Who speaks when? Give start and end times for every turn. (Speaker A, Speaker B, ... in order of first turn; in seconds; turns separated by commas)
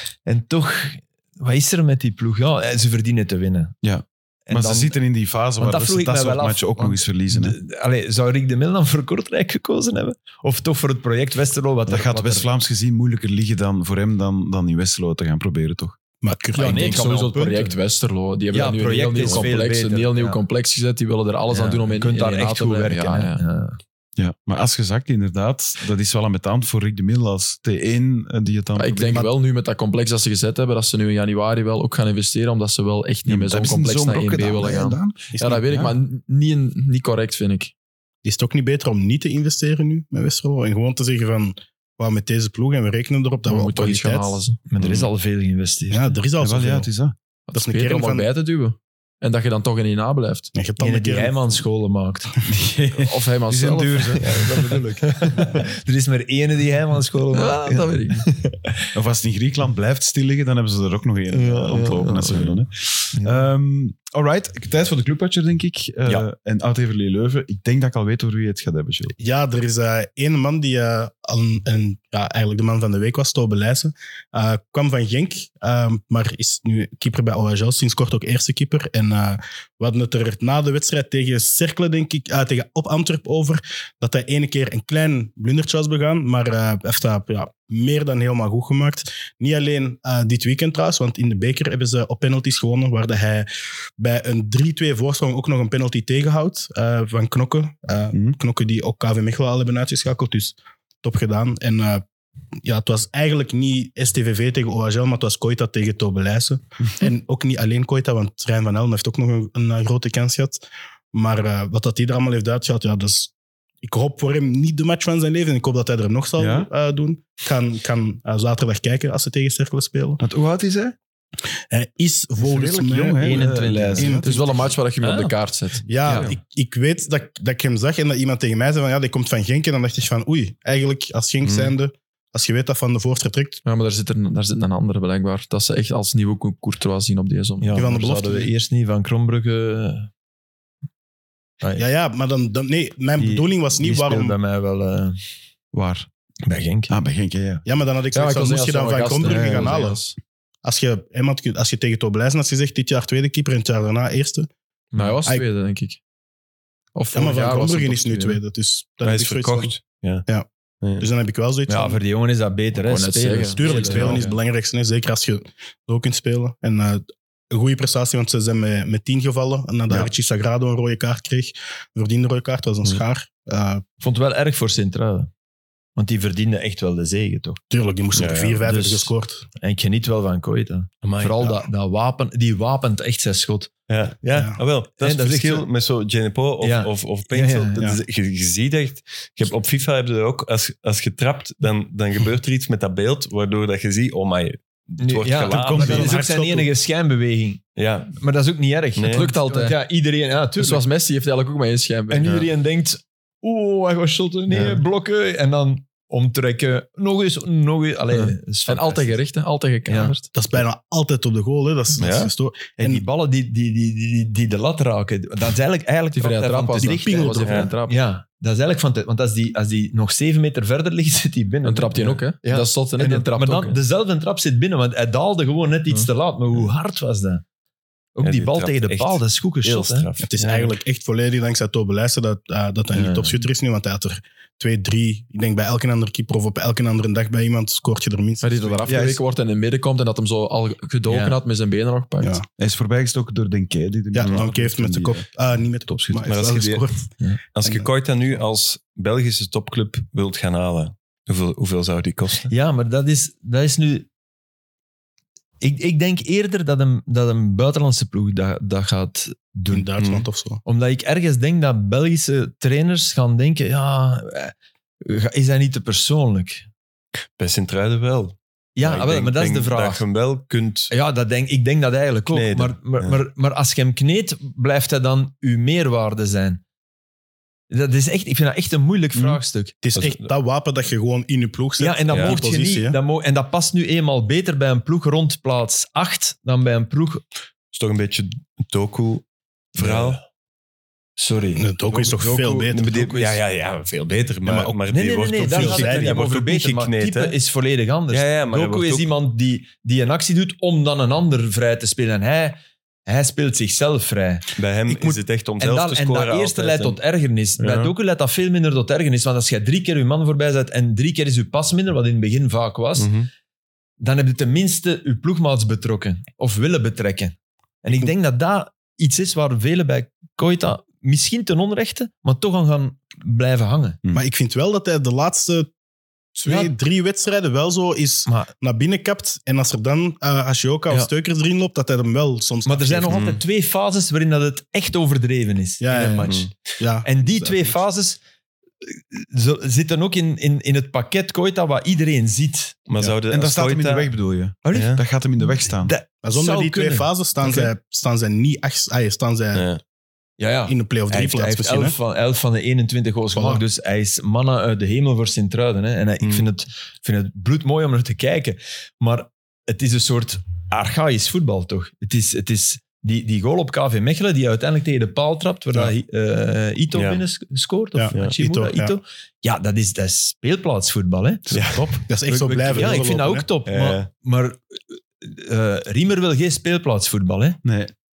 Speaker A: 0.2-3.8, Speaker B: 3.8-7.5, Speaker A: 4.5-5.0, Speaker A: 5.6-12.5, Speaker B: 11.9-16.0, Speaker C: 16.2-17.0, Speaker A: 16.5-17.7, Speaker D: 16.6-23.4, Speaker A: 18.5-20.4, Speaker A: 21.5-23.8, Speaker B: 24.2-29.3, Speaker D: 28.8-37.7, Speaker B: 33.2-35.9, Speaker C: 38.2-44.4, Speaker D: 43.5-44.6, Speaker A: 44.7-46.1, Speaker B: 44.8-45.1, Speaker C: 45.9-46.9, Speaker B: 46.4-47.1, Speaker D: 47.5-50.5, Speaker C: 47.5-48.3, Speaker C: 50.5-51.4, Speaker A: 50.8-52.3, Speaker B: 52.5-55.6, Speaker D: 53.0-54.3, Speaker A: 54.2-58.7, Speaker D: 57.3-58.3, Speaker B: 58.9-69.1, Speaker A: 61.3-62.5, Speaker D: 61.9-62.3, Speaker A: 63.1-63.5, Speaker C: 69.2-93.5, Speaker C: 94.0-102.0, Speaker C: 102.6-110.6, Speaker C: 111.1-120.2, Speaker B: 116.4-116.7, Speaker B: 120.2-121.0, Speaker C: 121.7-124.5, Speaker B: 122.4-124.5, Speaker A: 123.2-124.2, Speaker D: 124.2-125.8, Speaker A: 125.0-125.3, Speaker C: 125.9-133.6, Speaker B: 126.0-126.3, Speaker E: 131.4-131.7, Speaker D: 133.6-138.0, Speaker A: 137.6-140.1, Speaker C: 137.7-138.5, Speaker A: 141.6-141.9, Speaker C: 141.8-144.4, Speaker A: 143.2-145.2, Speaker B: 145.7-146.1, Speaker A: 146.4-146.9, Speaker B: 146.9-147.6, Speaker C: 147.6-150.0, Speaker D: 148.1-150.2, Speaker C: 150.6-154.5, Speaker A: 154.9-155.2, Speaker D: 154.9-156.0, Speaker D: 156.9-158.4, Speaker C: 157.1-159.7, Speaker E: 159.0-160.3, Speaker E: 160.8-161.1, Speaker C: 161.0-162.0, Speaker A: 161.7-164.4, Speaker D: 162.8-164.3, Speaker C: 163.6-173.8, Speaker A: 174.0-175.3, Speaker A: 175.9-177.6, Speaker C: 177.7-179.4, Speaker E: 178.1-178.6, Speaker A: 178.6-183.7, Speaker E: 181.0-181.6, Speaker E: 183.9-196.1, Speaker C: 184.3-184.6, Speaker A: 185.0-185.7, Speaker A: 186.6-187.9, Speaker A: 195.0-197.6, Speaker B: 195.5-196.2, Speaker C: 195.7-196.7, Speaker E: 197.8-198.2, Speaker A: 198.1-200.8, Speaker E: 198.9-199.3, Speaker D: 199.1-199.8, Speaker D: 200.6-202.4, Speaker A: 202.1-209.2, Speaker E: 204.5-204.8, Speaker D: 208.1-210.3, Speaker A: 209.9-210.2, Speaker C: 210.3-213.1, Speaker E: 212.0-212.3, Speaker A: 212.8-227.4, Speaker D: 216.1-218.0, Speaker C: 216.8-217.7, Speaker E: 217.4-217.7, Speaker D: 221.6-223.8, Speaker A: 228.1-230.1, Speaker E: 228.2-230.7, Speaker C: 230.2-238.9, Speaker A: 232.9-233.4, Speaker D: 238.4-242.4, Speaker B: 238.9-239.2, Speaker A: 241.1-241.4, Speaker B: 242.6-245.3, Speaker C: 244.1-247.1, Speaker B: 245.9-246.2, Speaker E: 246.2-246.8, Speaker E: 247.6-252.5, Speaker C: 247.6-247.9, Speaker A: 252.5-254.1, Speaker A: 255.6-259.9, Speaker C: 259.7-260.6, Speaker E: 260.0-260.3, Speaker A: 260.6-266.6, Speaker E: 267.4-270.9, Speaker A: 268.8-270.0, Speaker A: 270.9-276.6, Speaker E: 272.3-273.2, Speaker A: 277.7-279.7, Speaker C: 279.8-283.0, Speaker E: 279.9-280.3, Speaker A: 281.8-287.2, Speaker E: 282.1-282.4, Speaker E: 287.7-289.2, Speaker E: 289.7-290.2, Speaker A: 289.8-290.2, Speaker A: 291.2-293.4, Speaker C: 291.6-292.9, Speaker E: 292.7-297.4, Speaker C: 294.4-294.8, Speaker A: 294.9-313.1, Speaker C: 295.4-296.1, Speaker E: 298.1-299.1, Speaker E: 304.6-307.0, Speaker E: 307.6-307.9, Speaker E: 313.0-313.3, Speaker A: 314.0-324.0, Speaker C: 324.1-325.7, Speaker C: 326.4-333.2, Speaker A: 326.4-326.7, Speaker A: 328.3-328.5, Speaker A: 332.6-336.5, Speaker E: 333.1-333.4, Speaker C: 335.8-337.7, Speaker A: 337.0-338.2, Speaker A: 338.8-342.8, Speaker E: 342.9-344.1, Speaker B: 343.0-345.9, Speaker A: 344.6-347.7, Speaker E: 344.7-345.0, Speaker C: 346.2-349.7, Speaker E: 349.5-349.8, Speaker A: 350.4-371.6, Speaker C: 350.7-351.9, Speaker C: 353.3-353.6, Speaker E: 366.9-367.2, Speaker C: 367.9-368.9, Speaker E: 371.5-372.0, Speaker B: 371.6-372.0, Speaker C: 372.1-373.4, Speaker A: 372.3-377.6, Speaker E: 373.7-374.1, Speaker B: 377.6-377.9